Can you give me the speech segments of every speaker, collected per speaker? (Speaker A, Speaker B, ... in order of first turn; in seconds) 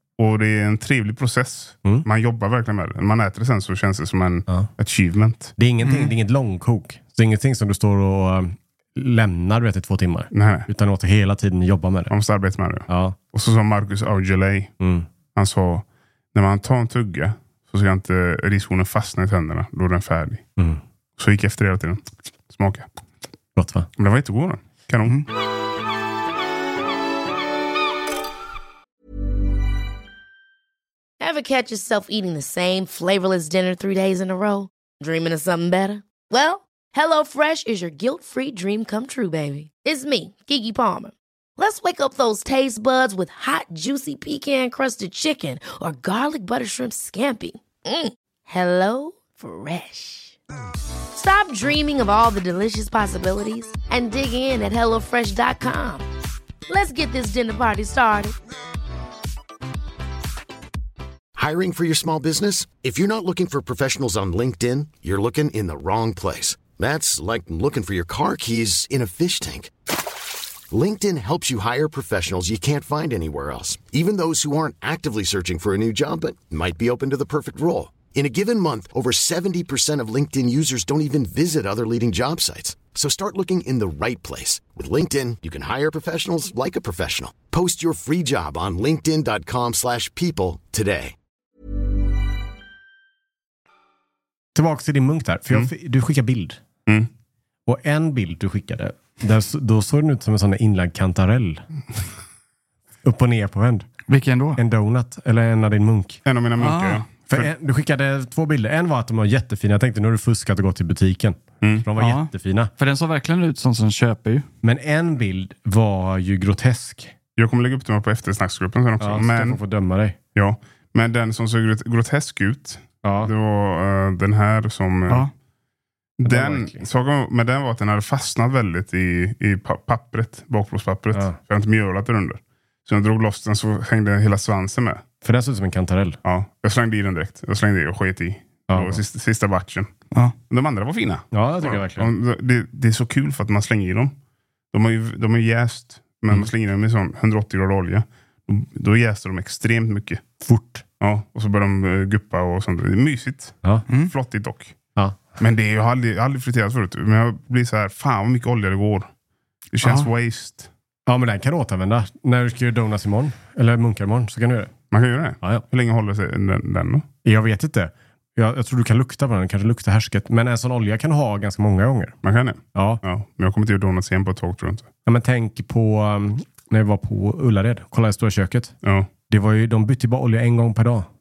Speaker A: 0.2-5.5, 10.3-10.7, 12.1-14.7, 15.3-20.4, 21.2-22.9, 24.0-25.2, 106.2-107.5, 117.4-119.6, 120.3-125.3, 126.2-135.0, 136.2-139.9, 140.5-144.1, 144.7-150.2, 151.0-154.7, 155.4-159.1, 159.7-160.7, 164.9-167.1, 172.2-174.9, 178.8-179.1
Speaker B: 5.6-12.1, 12.9-13.2, 14.8-15.1, 23.6-23.9, 94.5-96.6, 97.7-101.6, 103.0-103.9, 104.5-106.2, 107.3-112.7, 114.6-117.1, 119.0-120.2, 123.0-123.3, 126.2-126.8, 135.2-136.2, 138.7-139.0, 141.3-142.1, 150.4-150.8, 161.1-164.7, 167.2-172.1, 172.7-173.0, 175.1-178.7, 179.3-181.1
Speaker C: 5.8-6.1, 104.1-104.6, 106.6-107.0, 112.0-114.5, 159.8-160.1
Speaker D: 31.2-50.4, 51.1-56.0, 56.7-58.4
Speaker E: 61.4-69.7, 70.7-91.1